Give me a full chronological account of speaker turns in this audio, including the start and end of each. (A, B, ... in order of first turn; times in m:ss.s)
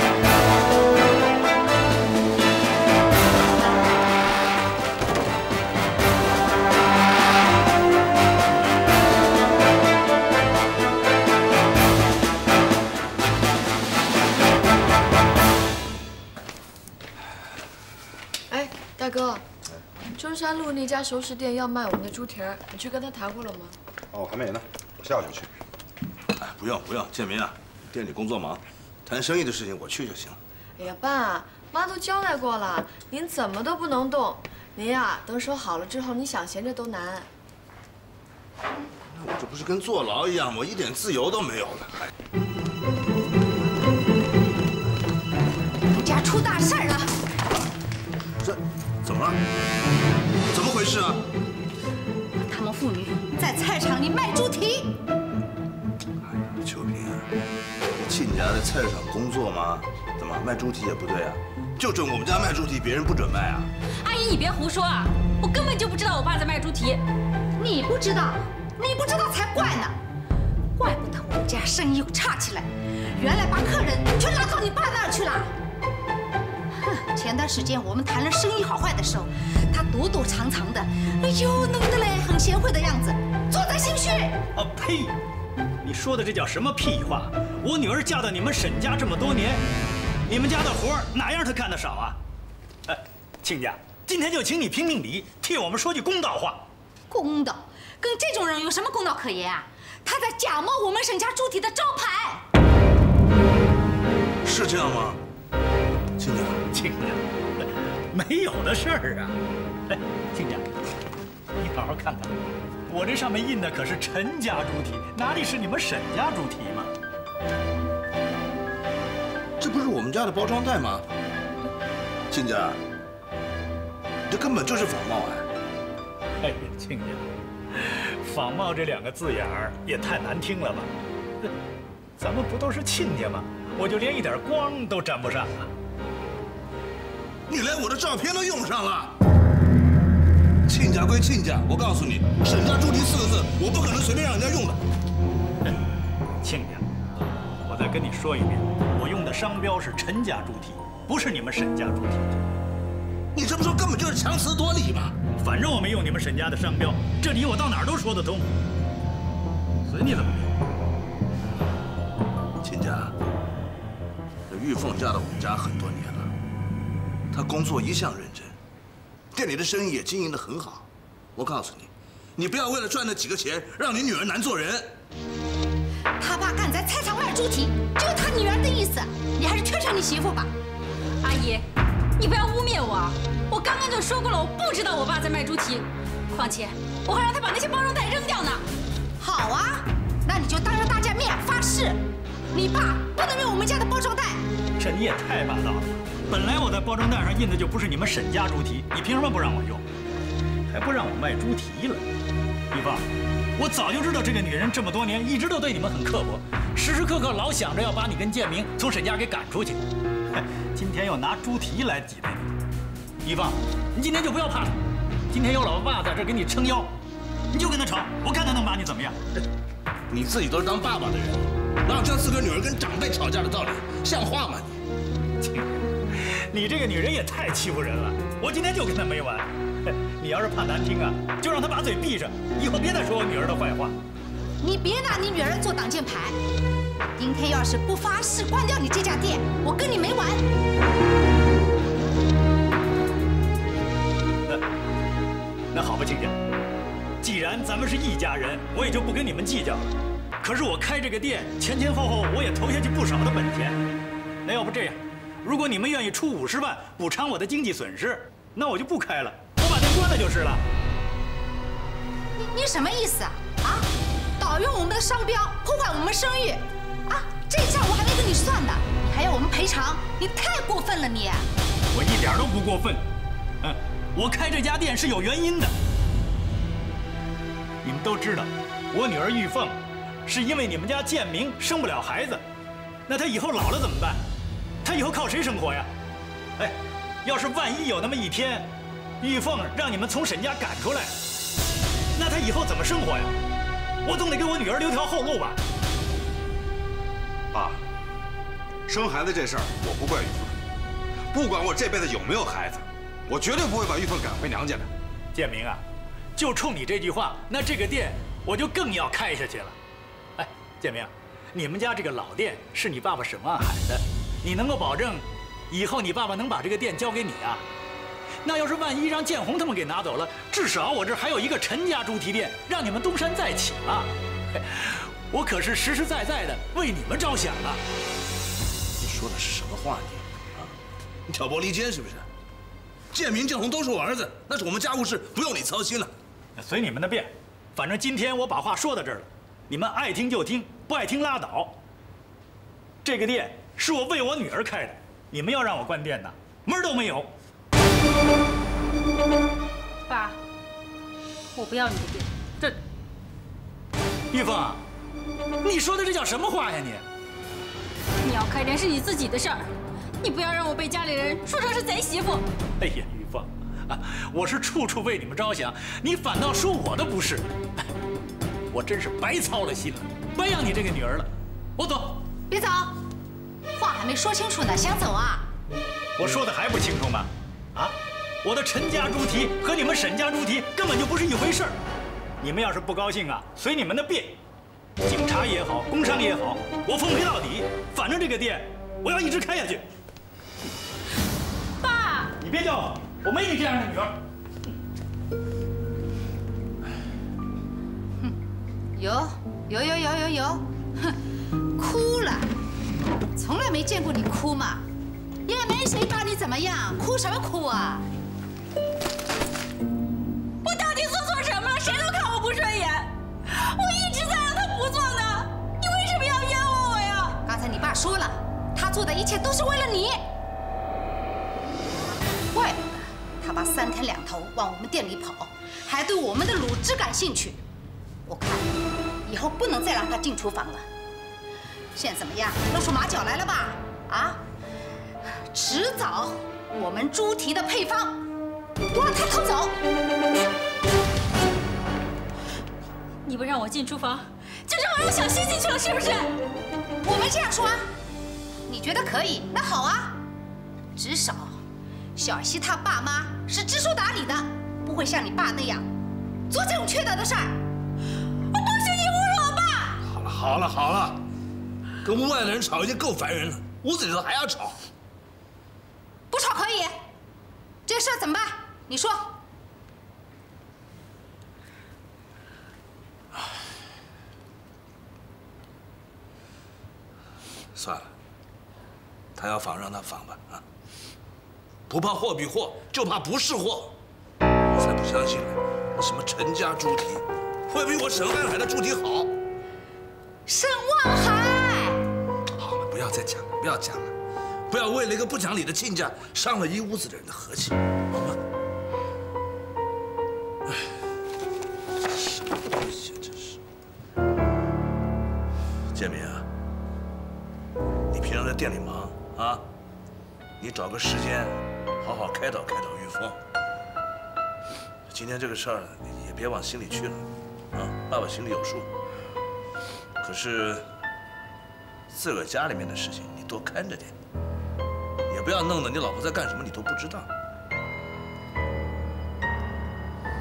0:18.5-0:19.4 A
0:20.1-0:23.8 A
0:24.1-0:25.5 B
0:26.4-0:30.4 C
0:30.8-0:37.3 A
0:39.1-0:42.1 C
0:45.9-0:47.2 D
0:48.4-0:49.4 C
0:50.5-0:51.2 C
0:52.4-0:55.0 D
0:56.2-0:57.3 C
0:57.9-1:03.7 C
1:04.0-1:07.0 E
1:07.6-1:10.0 D
1:10.8-1:15.5 D
1:16.8-1:24.4 D
1:24.6-1:25.2 F
1:25.8-1:29.6 F
1:30.3-1:32.2 F
1:32.9-1:36.6 F
1:37.1-1:42.4 D
1:44.4-1:45.2 C
1:46.2-1:46.6 C
1:46.7-1:49.4 F
1:49.9-1:50.7 F
1:51.6-1:52.4 F
1:52.9-1:56.9 F
1:59.6-2:01.1 C
2:02.3-2:02.8 C
2:04.3-2:05.5 C
2:06.4-2:11.5 F
2:12.2-2:15.7 F
2:17.5-2:19.2 C
2:20.6-2:24.8 C
2:26.4-2:26.9 F
2:27.6-2:32.4 F
2:33.3-2:35.2 C
2:35.4-2:38.5 F
2:39.9-2:40.5 F
2:42.6-2:43.1 C
2:44.5-2:46.3 C
2:47.3-2:48.6 C
2:49.3-2:54.9 C
2:56.2-3:00.5 D
3:01.2-3:01.7 E
3:02.2-3:08.6 E
3:09.2-3:12.0 D
3:12.5-3:14.4 D
3:14.8-3:19.8 F
3:20.7-3:22.1 F
3:22.7-3:32.6 F
3:33.2-3:34.8 F
3:35.3-3:36.9 F
3:37.5-3:39.2 F
3:40.1-3:44.8 C
3:45.4-3:54.0 F
3:54.6-3:56.4 D
3:57.2-4:00.4 D
4:05.7-4:06.4 F
4:07.2-4:13.8 F
4:14.4-4:20.6 F
4:22.4-4:23.9 D
4:24.4-4:31.5 D
4:31.9-4:33.0 F
4:33.6-4:35.8 F
4:37.8-4:42.4 F
4:43.1-4:44.2 F
4:44.8-4:45.9 F
4:46.6-4:48.7 F
4:49.2-4:51.1 F
4:52.2-4:53.4 F
4:54.0-4:55.6 F
4:57.5-4:57.8 B
4:58.9-5:00.6 B
5:01.3-5:04.9 B
5:05.3-5:05.8 F
5:06.4-5:09.8 F
5:10.4-5:17.6 F
5:18.4-5:27.8 F
5:29.0-5:30.8 C
5:31.3-5:32.3 C
5:33.1-5:36.1 C
5:36.6-5:41.8 F
5:43.0-5:47.3 F
5:50.1-5:50.4 E
5:51.6-5:52.8 E
5:54.3-5:54.8 F
5:55.6-5:57.0 F
5:58.2-6:02.4 E
6:02.8-6:07.8 F
6:08.7-6:12.2 F
6:12.5-6:13.0 D
6:13.7-6:15.5 D
6:16.2-6:21.8 F
6:22.4-6:24.4 F
6:25.0-6:29.8 F
6:31.8-6:32.3 E
6:32.4-6:34.2 F
6:39.0-6:41.1 D
6:41.8-6:42.5 D
6:43.4-6:44.8 D
6:45.5-6:48.0 D
6:50.6-6:57.4 E
6:57.4-7:00.2 D
7:02.5-7:07.6 D
7:08.3-7:08.7 D
7:09.2-7:10.9 D
7:12.0-7:14.4 D
7:15.5-7:18.2 D
7:18.9-7:19.8 D
7:23.2-7:26.3 E
7:27.0-7:27.9 D
7:28.7-7:30.2 D
7:31.0-7:31.6 D
7:32.2-7:35.9 D
7:36.5-7:37.6 D
7:38.5-7:40.0 D
7:40.0-7:41.2 C
7:42.0-7:44.8 C
7:46.3-7:47.0 D
7:47.9-7:49.3 D
7:57.7-7:58.1 C
7:59.4-8:00.6 C
8:01.9-8:04.0 C
8:04.7-8:09.3 C
8:10.5-8:12.0 D
8:12.6-8:14.1 C
8:14.7-8:18.4 C
8:22.1-8:23.6 C
8:25.9-8:26.5 C
8:28.1-8:29.6 C
8:30.6-8:33.4 C
8:35.1-8:38.9 C
8:40.2-8:40.9 C
8:42.1-8:44.2 C
8:45.3-8:47.3 C